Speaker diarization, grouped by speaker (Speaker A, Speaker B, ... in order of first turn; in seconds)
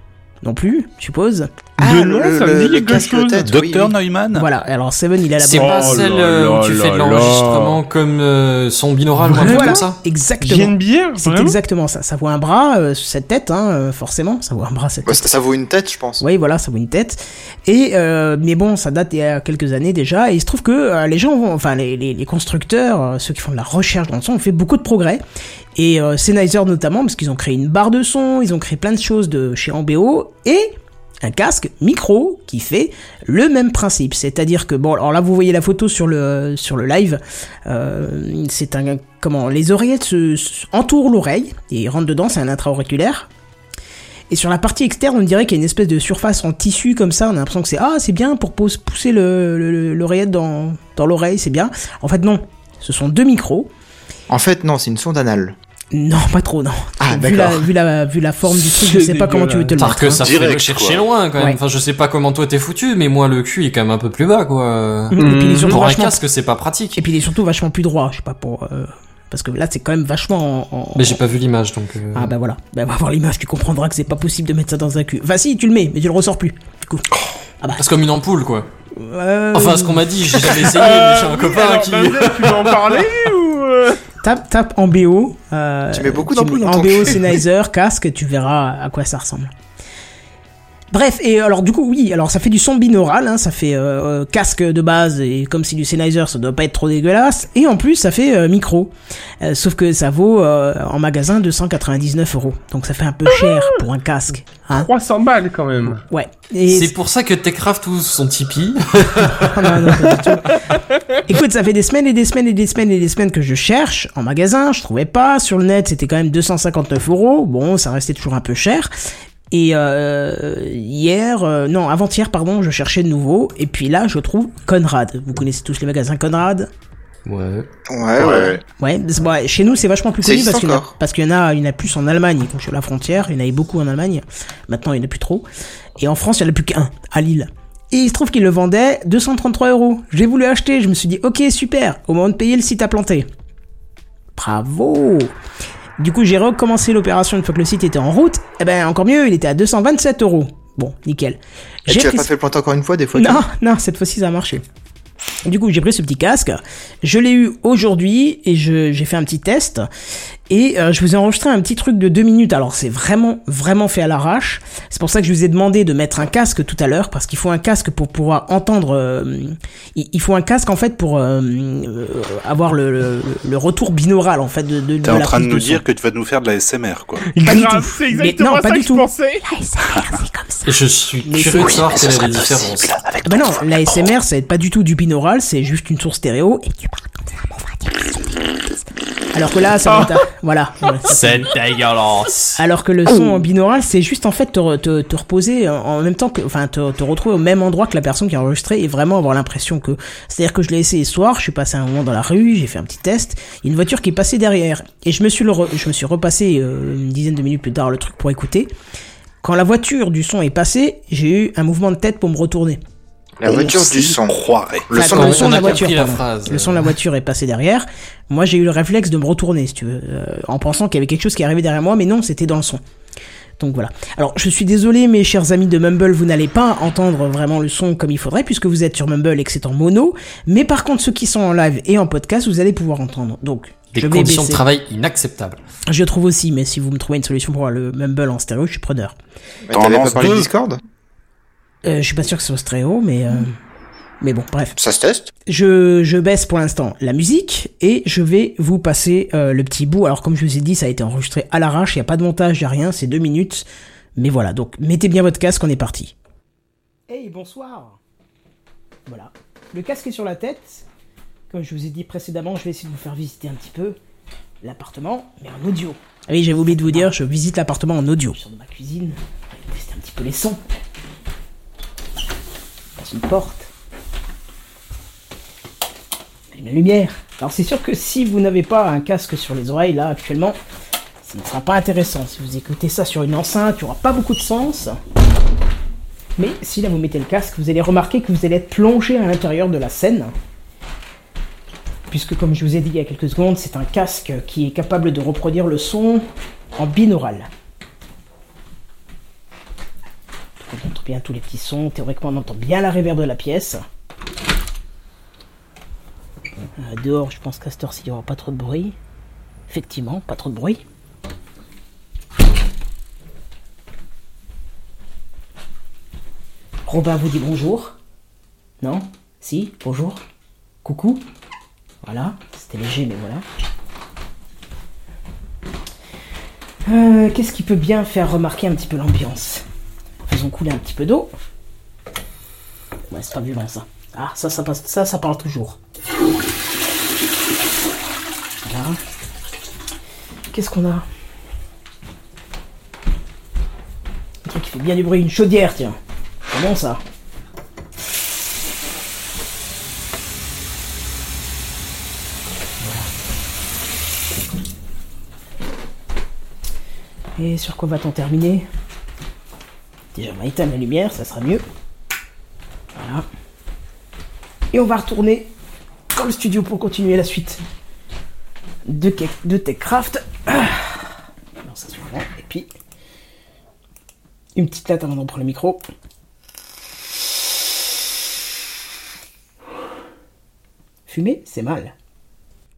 Speaker A: 0.4-1.5, 4.3-6.0, 9.3-15.3, 16.2-25.2, 25.8-43.3, 44.3-53.7, 55.9-60.3, 65.1-66.2, 67.0-71.2, 72.1-77.1, 78.9-80.5, 84.2-89.5, 90.9-104.9, 105.9-106.9, 109.2-110.6, 111.3-118.9, 119.5-126.7, 128.8-135.5, 136.0-143.3, 144.4-145.3, 146.0-152.3, 153.1-154.6, 155.4-159.9, 160.5-175.8, 177.4-180.7, 181.2-181.9, 183.2-188.2, 189.3-191.5, 192.6-208.7, 209.4-212.8, 213.5-214.0, 214.9-222.8, 223.6-234.6, 235.9-239.2, 241.8-243.5, 244.2-244.8, 245.5-256.1, 257.1-258.0, 259.1-260.9, 261.5-264.0, 264.6-270.7, 273.0-273.7, 276.5-280.6, 281.2-285.0, 286.4-290.3, 292.1-297.5, 300.6-303.8, 306.8-309.0, 309.7-310.8, 316.9-318.0, 318.8-320.2, 320.8-321.2, 322.0-323.4, 326.9-329.6, 330.2-331.3, 333.1-335.8, 338.6-339.0, 340.5-341.1, 344.4-346.0, 346.5-347.0, 352.8-353.1, 357.4-358.7, 360.1-361.6, 362.9-363.3, 364.7-365.5, 366.1-367.6, 368.9-371.0, 371.6-372.7, 374.6-375.8, 381.1-381.9
Speaker B: 1.8-4.0, 15.1-16.2, 54.3-55.6, 57.0-57.7, 85.9-87.4, 127.9-128.6, 130.2-130.9, 151.9-153.4, 213.4-215.9, 239.7-240.8, 244.8-245.3
Speaker C: 1.8-3.5, 5.6-7.8, 9.2-9.8, 10.4-11.6, 58.6-59.7, 65.2-65.8, 80.5-84.0, 104.7-106.0, 110.5-111.0, 177.3-179.4
Speaker D: 3.5-4.5, 60.1-61.1, 128.2-128.6, 175.0-177.3, 181.5-183.9, 213.5-214.9, 239.7-240.5
Speaker E: 5.4-10.0, 59.8-67.0, 71.0-72.3, 77.8-78.7, 79.5-83.0, 106.7-110.2, 127.3-127.7, 180.7-183.0, 191.1-192.6, 215.0-216.9, 233.9-235.6